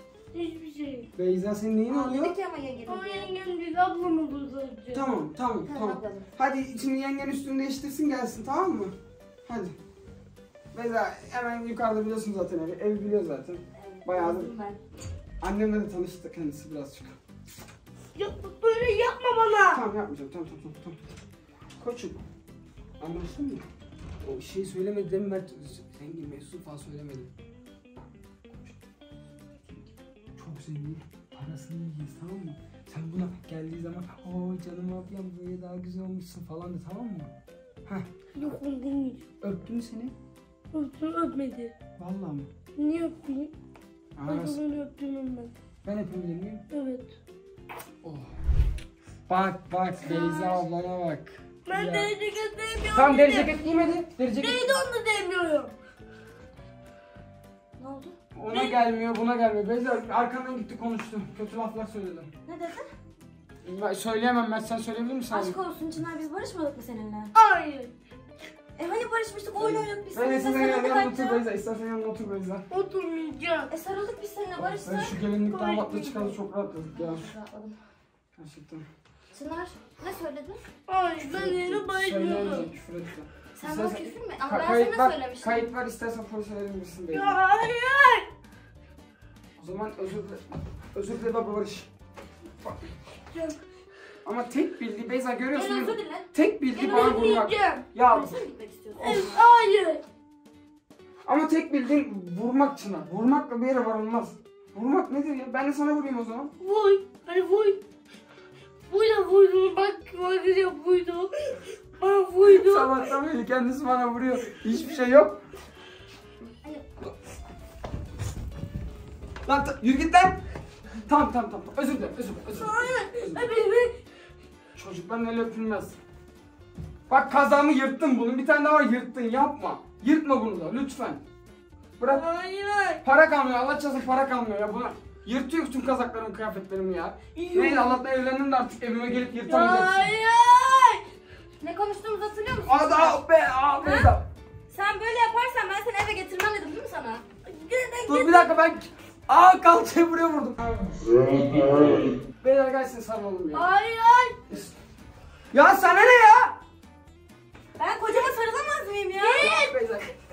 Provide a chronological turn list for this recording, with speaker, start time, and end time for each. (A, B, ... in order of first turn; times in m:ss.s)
0:00.3-0:01.1 A
0:01.2-0:02.4 B
0:01.9-0:03.4 C
0:02.9-0:05.0 A
0:04.9-0:08.9 B
0:05.6-0:06.3 C
0:09.5-0:09.8 B
0:10.7-0:14.5 B
0:13.7-0:14.8 C
0:15.4-0:17.2 B
0:18.2-0:19.8 A
0:19.7-0:21.0 B
0:21.8-0:22.2 B
0:23.0-0:23.6 B
0:24.2-0:27.3 B
0:30.4-0:37.3 B
0:38.4-0:39.2 A
0:39.4-0:40.1 B
0:40.7-0:41.7 A
0:42.0-0:42.5 B
0:42.8-0:43.5 A
0:44.2-0:44.6 B
0:44.2-0:45.5 A
0:45.8-0:46.6 B
0:46.7-0:47.2 A
0:48.0-0:48.3 B
0:49.3-0:52.1 B
0:50.0-0:50.6 A
0:51.7-0:53.6 A
0:52.9-0:54.8 B
0:54.4-0:55.7 A
0:57.8-0:58.2 C
0:58.4-1:02.3 B
0:58.5-0:58.8 A
1:02.4-1:02.9 C
1:03.6-1:05.6 B
1:05.3-1:07.3 C
1:07.3-1:08.0 A
1:08.8-1:11.4 C
1:09.6-1:12.6 B
1:12.7-1:13.7 A
1:13.7-1:15.2 C
1:14.6-1:17.3 B
1:15.3-1:16.2 A
1:16.9-1:17.8 C
1:18.4-1:18.9 B
1:19.3-1:20.7 C
1:20.9-1:22.7 A
1:21.2-1:27.4 B
1:23.6-1:25.7 C
1:27.1-1:28.3 A
1:29.6-1:31.9 B
1:33.3-1:33.6 A
1:34.2-1:38.4 B
1:35.5-1:36.3 C
1:36.7-1:37.9 A
1:36.8-1:37.4 C
1:38.0-1:39.5 C
1:39.0-1:40.0 A
1:41.3-1:46.5 B
1:46.6-1:47.8 A
1:48.9-1:53.0 A
1:52.4-1:55.4 B
1:59.5-2:00.4 B
2:01.1-2:03.5 B
2:02.6-2:04.0 A
2:04.8-2:06.0 B
2:07.1-2:11.2 B
2:12.0-2:12.3 B
2:12.0-2:13.0 A
2:13.0-2:20.1 B
2:17.4-2:18.0 A
2:19.5-2:21.1 A
2:21.6-2:23.2 C
2:22.6-2:24.2 B
2:23.8-2:24.2 C
2:24.7-2:27.2 C
2:27.5-2:28.6 A
2:28.1-2:30.6 B
2:31.2-2:33.7 B
2:33.5-2:34.4 A
2:34.5-2:34.7 B
2:35.5-2:36.6 B
2:37.8-2:39.6 C
2:38.1-2:38.4 A
2:39.2-2:39.8 A
2:39.4-2:40.1 B